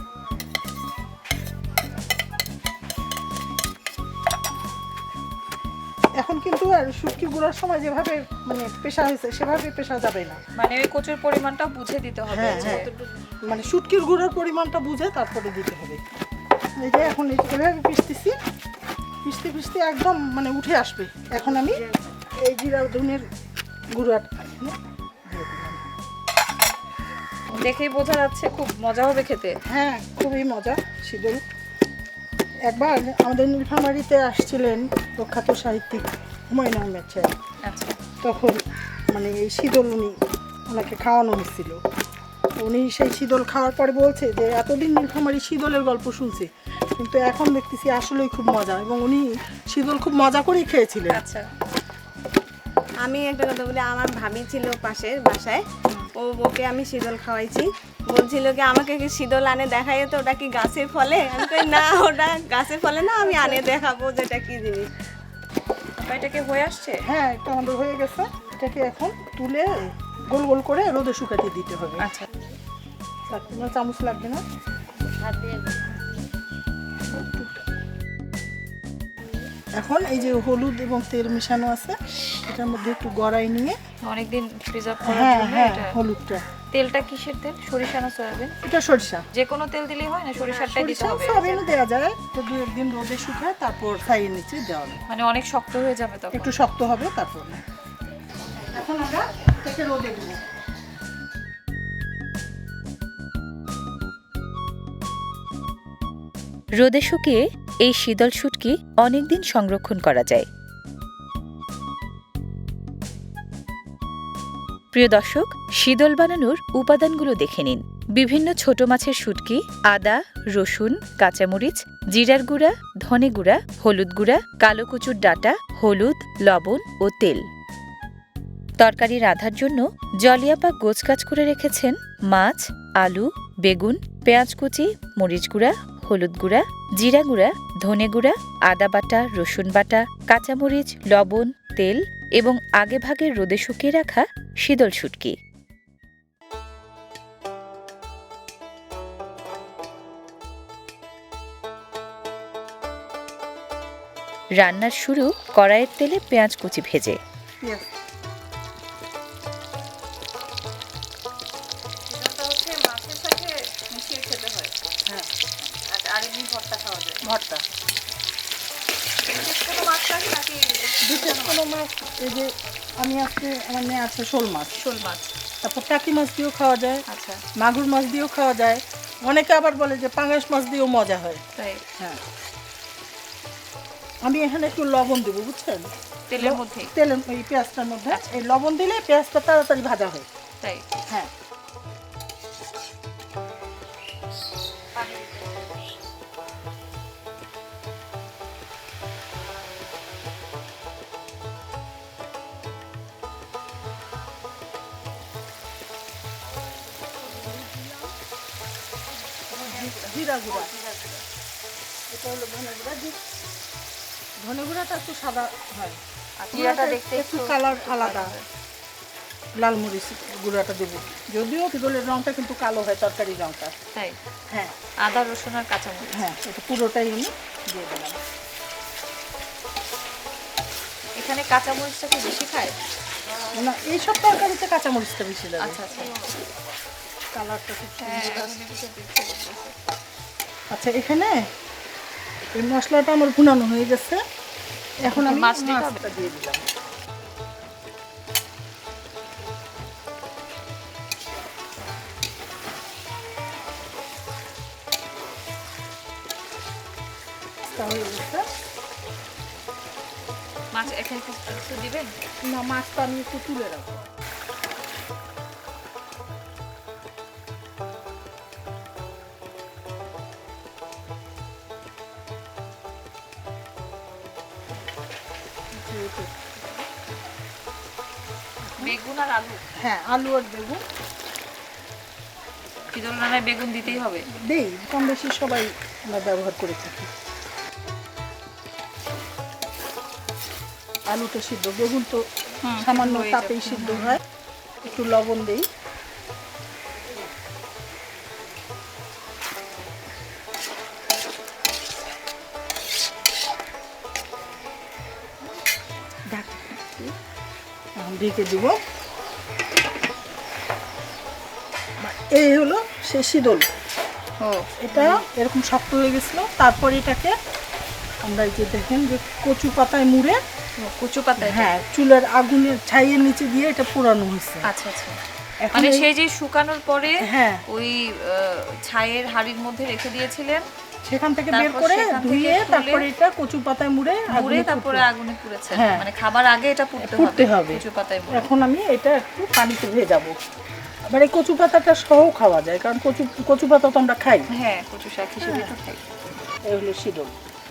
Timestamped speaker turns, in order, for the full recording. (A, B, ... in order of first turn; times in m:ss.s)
0:06.2-0:10.4 A
0:10.6-0:12.9 B
0:12.3-0:12.9 A
0:13.4-0:16.0 A
0:16.8-0:18.3 A
0:19.2-0:21.8 A
0:22.4-0:23.2 A
0:23.9-0:24.7 A
0:25.3-0:25.8 A
0:27.5-0:29.6 B
0:29.7-0:31.4 A
0:32.7-0:37.3 A
0:37.6-0:38.0 B
0:38.2-0:38.6 A
0:39.1-0:40.2 A
0:40.7-0:41.8 A
0:42.6-0:51.2 A
0:51.2-0:51.5 B
0:53.0-0:55.6 C
0:56.1-1:04.9 C
1:03.2-1:03.6 A
1:06.0-1:07.0 B
1:07.0-1:12.1 A
1:12.0-1:12.3 B
1:13.3-1:14.4 A
1:15.3-1:15.7 C
1:17.1-1:17.6 A
1:19.8-1:23.8 A
1:24.0-1:26.0 B
1:25.0-1:26.4 A
1:26.7-1:28.6 B
1:28.6-1:29.2 A
1:29.3-1:31.6 B
1:30.4-1:35.0 A
1:35.1-1:36.4 B
1:36.3-1:37.6 A
1:38.7-1:40.4 A
1:46.8-1:50.5 D
1:54.9-2:07.4 D
2:08.8-2:25.4 D
2:34.6-2:37.2 D
2:37.6-2:37.9 A
2:42.1-2:44.8 B
2:45.8-2:47.2 B
2:47.2-2:47.6 A
2:49.2-2:51.6 B
2:51.0-2:54.8 A
2:54.8-2:55.3 B
2:55.6-2:57.0 A
2:57.1-2:57.4 B
2:57.6-3:01.4 A
3:01.6-3:01.8 B
3:04.2-3:10.3 A
3:06.3-3:06.9 B
3:10.6-3:10.9 B
3:14.9-3:15.7 B
3:27.2-3:28.1 A
3:29.5-3:30.7 A
3:29.7-3:31.2 B
3:32.1-3:33.2 A
3:34.4-3:36.0 A
3:36.4-3:38.4 B
3:36.5-3:38.4 A
3:39.6-3:43.7 A
3:44.5-3:44.8 A
3:45.0-3:46.2 B
3:46.1-3:48.2 A
3:51.2-3:52.8 B
3:53.5-3:55.8 A
3:55.6-3:56.3 B
3:57.3-3:58.6 A
3:58.0-3:59.7 B
4:00.7-4:01.3 A
4:02.6-4:04.2 A
4:05.0-4:06.6 A
4:05.1-4:06.0 B
4:17.6-4:18.5 A
4:20.7-4:22.2 B
4:22.4-4:24.0 A
4:35.8-4:36.8 A
4:38.6-4:39.0 A
4:38.8-4:39.6 B
4:39.8-4:40.8 A
4:42.9-4:44.2 B
4:43.9-4:47.1 A
4:51.1-4:54.2 A
4:52.7-4:54.0 B
4:54.8-4:55.6 A
5:06.3-5:07.1 A
5:08.0-5:08.8 A
5:12.0-5:13.6 A
5:14.4-5:14.7 B
5:14.8-5:17.3 A
5:18.2-5:20.4 A
5:20.8-5:21.6 B
5:21.4-5:24.7 A
5:24.7-5:25.2 B
5:25.6-5:26.1 A
5:25.8-5:27.2 B
5:27.2-5:27.6 A
5:27.7-5:30.7 B
5:31.1-5:35.1 A
5:31.5-5:33.0 B
5:34.4-5:38.4 B
5:35.7-5:36.1 A
5:37.0-5:40.3 A
5:41.1-5:44.5 A
5:44.5-5:46.0 B
5:45.4-5:45.8 A
5:46.7-5:47.4 A